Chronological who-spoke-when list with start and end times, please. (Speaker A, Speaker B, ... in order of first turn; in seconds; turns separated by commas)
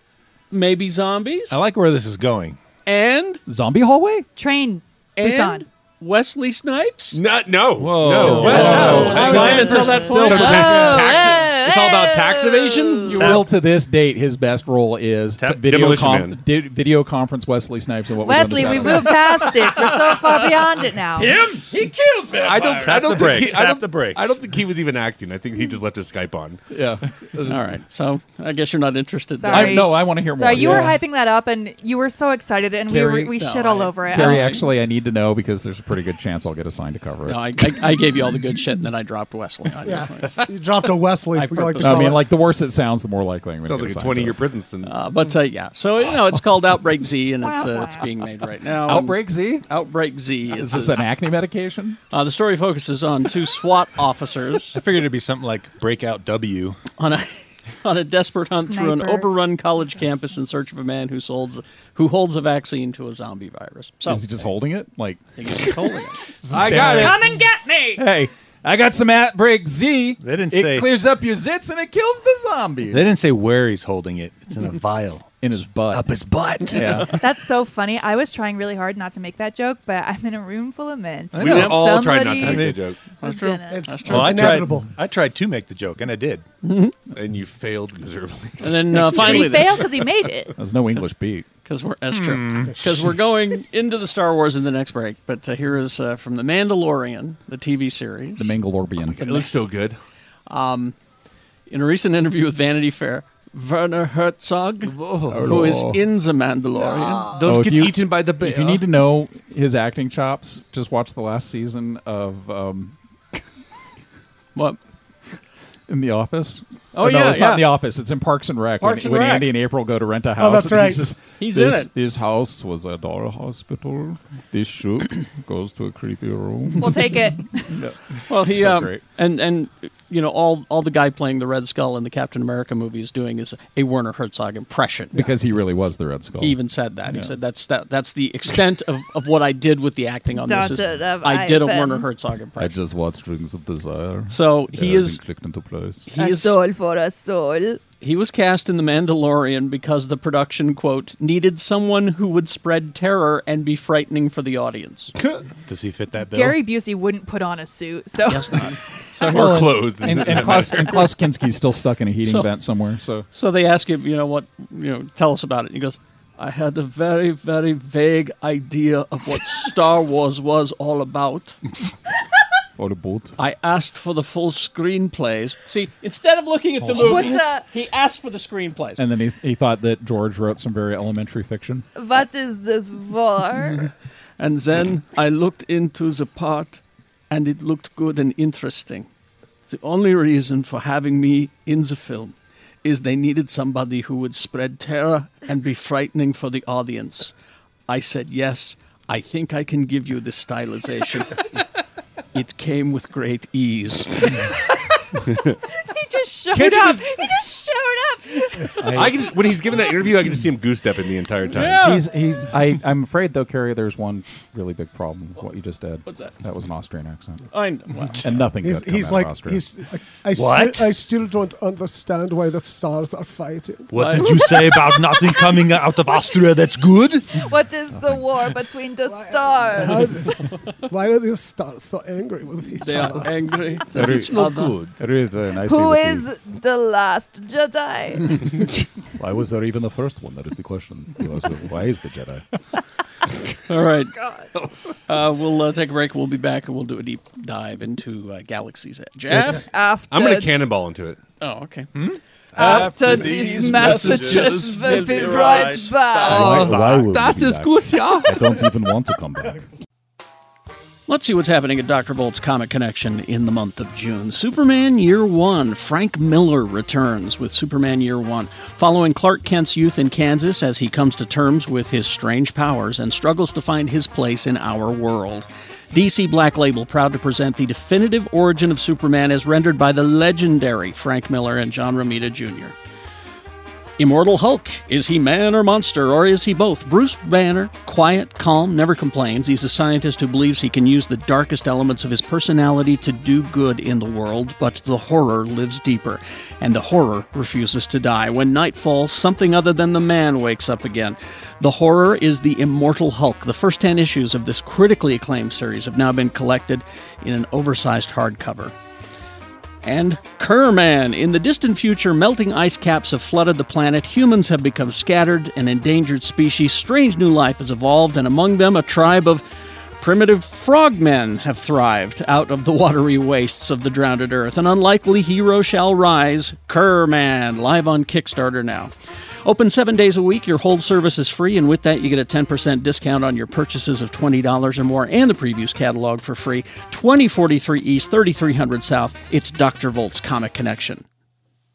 Speaker A: 0.5-1.6, Speaker B: 1.5-2.6, Speaker A: 2.9-3.4, Speaker C: 3.5-4.3, Speaker D: 4.3-5.7, Speaker A: 5.2-7.2, Speaker E: 7.1-13.4, Speaker B: 7.8-9.5, Speaker C: 8.2-11.0, Speaker A: 8.3-11.2, Speaker D: 8.5-13.3, Speaker F: 9.4-9.9, Speaker A: 13.1-13.4, Speaker C: 13.1-19.4, Speaker E: 15.4-16.4, Speaker D: 18.2-21.4, Speaker B: 21.2-24.4, Speaker C: 21.2-23.3, Speaker E: 22.4-26.6, Speaker C: 26.7-27.6, Speaker A: 27.4-29.9, Speaker D: 29.4-34.5, Speaker C: 29.5-31.0, Speaker A: 30.5-31.0, Speaker C: 32.9-33.3, Speaker A: 33.0-34.7, Speaker C: 34.1-37.6, Speaker A: 37.2-40.4, Speaker F: 39.8-42.2, Speaker A: 41.3-42.2, Speaker C: 41.8-44.4, Speaker E: 43.6-45.4, Speaker A: 44.8-51.0, Speaker D: 47.4-48.1, Speaker C: 48.8-49.7, Speaker C: 50.5-52.0, Speaker A: 52.1-54.8, Speaker B: 54.7-56.8, Speaker A: 57.0-64.4, Speaker D: 58.5-60.3, Speaker C: 64.0-65.3, Speaker A: 65.4-66.3, Speaker C: 66.4-67.3, Speaker B: 66.5-67.2, Speaker D: 66.6-68.0, Speaker C: 68.0-73.1, Speaker B: 70.2-70.9, Speaker B: 72.9-75.4, Speaker C: 75.4-76.1, Speaker B: 75.9-77.2, Speaker C: 76.7-77.1, Speaker D: 77.1-83.9, Speaker B: 81.3-81.7, Speaker E: 81.4-83.1, Speaker B: 82.3-82.8, Speaker A: 83.2-84.6, Speaker F: 83.7-84.9, Speaker B: 84.0-86.4, Speaker A: 86.6-86.9, Speaker E: 87.1-89.6, Speaker A: 88.6-89.9, Speaker D: 89.0-90.5, Speaker C: 90.6-91.5, Speaker A: 91.7-98.5, Speaker B: 92.1-93.1, Speaker C: 98.4-99.5, Speaker E: 99.0-100.0, Speaker A: 100.5-100.9, Speaker A: 101.7-107.4, Speaker E: 104.8-105.5, Speaker C: 105.3-106.0, Speaker E: 106.9-108.9, Speaker C: 107.4-113.0, Speaker C: 115.9-127.0, Speaker A: 116.9-117.7, Speaker A: 118.8-119.5, Speaker F: 120.4-121.1, Speaker A: 121.4-121.9, Speaker D: 126.8-127.8, Speaker C: 127.7-129.0, Speaker A: 128.3-135.3, Speaker C: 135.1-137.3, Speaker A: 136.4-142.8, Speaker D: 140.3-142.1, Speaker C: 142.6-146.1, Speaker A: 144.3-145.2, Speaker A: 146.1-146.6, Speaker D: 146.1-147.8, Speaker A: 148.0-155.1, Speaker B: 155.7-156.6, Speaker D: 156.3-158.8, Speaker A: 158.3-160.3, Speaker E: 159.2-161.1, Speaker C: 159.2-163.2, Speaker A: 162.2-162.5, Speaker A: 163.3-171.6, Speaker C: 172.8-173.4, Speaker A: 173.4-179.0, Speaker D: 176.9-177.6, Speaker C: 179.0-181.8, Speaker D: 181.9-183.9, Speaker A: 184.4-189.1, Speaker A: 189.7-197.3, Speaker A: 197.9-201.4, Speaker A: 202.3-204.4, Speaker D: 205.8-209.0, Speaker E: 206.5-207.2, Speaker C: 208.8-209.2, Speaker E: 208.8-211.9, Speaker A: 211.5-212.1, Speaker C: 211.8-217.5, Speaker A: 216.1-216.3, Speaker A: 217.5-218.3, Speaker C: 218.2-219.6, Speaker F: 218.6-224.0, Speaker B: 220.3-220.9, Speaker B: 223.9-227.4, Speaker A: 223.9-224.4, Speaker D: 224.2-226.3, Speaker D: 227.3-230.2, Speaker C: 227.9-228.2, Speaker F: 229.1-233.6, Speaker A: 232.8-234.8, Speaker C: 233.9-236.3, Speaker D: 235.5-238.5, Speaker C: 239.2-242.4, Speaker A: 243.7-244.1, Speaker D: 244.1-244.5, Speaker A: 245.1-249.7, Speaker C: 249.3-249.6, Speaker D: 249.3-250.6, Speaker E: 250.1-251.2, Speaker A: 251.4-251.9, Speaker B: 251.9-257.3, Speaker D: 252.5-256.5, Speaker A: 252.6-256.2, Speaker C: 256.2-259.6, Speaker E: 256.4-258.6, Speaker A: 261.1-282.7, Speaker A: 284.0-308.7, Speaker A: 309.8-319.4, Speaker A: 320.0-328.9, Speaker A: 329.4-341.0